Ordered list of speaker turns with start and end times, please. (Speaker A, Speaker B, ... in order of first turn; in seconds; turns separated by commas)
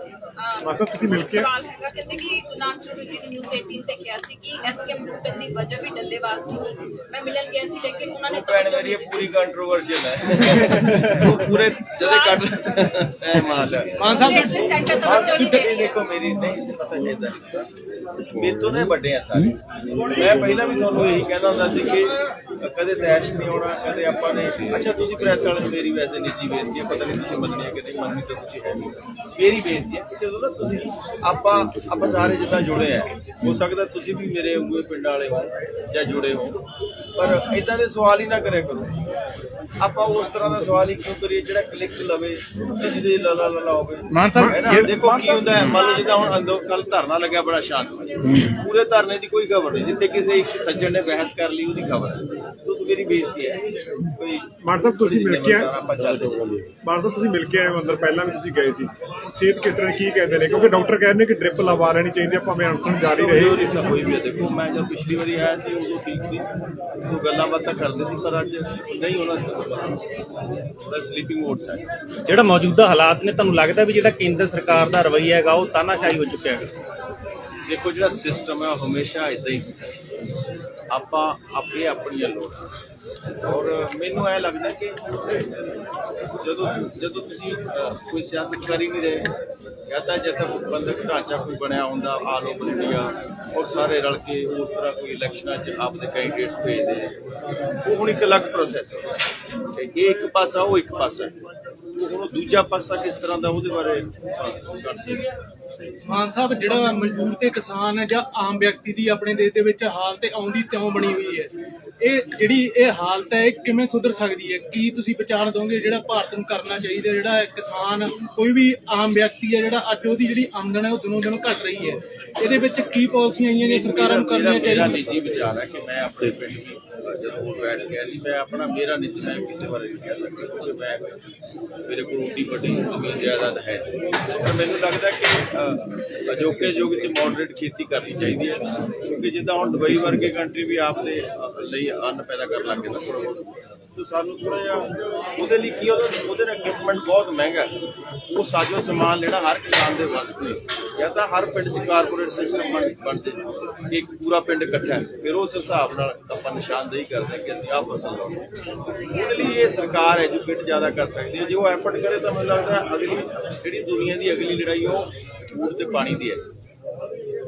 Speaker A: 0.4-9.4, Speaker B: 0.6-1.5, Speaker C: 8.3-17.7, Speaker A: 12.0-12.4, Speaker D: 14.0-15.6, Speaker A: 14.1-16.1, Speaker C: 18.3-19.6, Speaker C: 20.1-36.6, Speaker C: 37.2-38.9, Speaker C: 39.8-53.6, Speaker E: 44.1-45.5, Speaker B: 44.3-45.2, Speaker C: 54.2-56.7, Speaker B: 54.6-55.7, Speaker B: 56.7-63.8, Speaker C: 63.0-66.5, Speaker C: 67.1-70.0, Speaker C: 70.9-71.8, Speaker E: 72.2-76.7, Speaker C: 77.7-79.7, Speaker C: 80.9-82.6, Speaker C: 83.4-85.3, Speaker C: 86.4-89.3, Speaker C: 89.9-97.1, Speaker C: 97.8-99.2, Speaker C: 99.7-101.3, Speaker C: 102.0-105.3, Speaker D: 106.0-111.5, Speaker D: 112.0-125.1, Speaker C: 123.6-131.0, Speaker C: 131.9-138.6, Speaker C: 139.2-143.4, Speaker C: 143.9-147.8, Speaker C: 148.3-153.4, Speaker C: 153.9-158.5, Speaker C: 159.1-166.4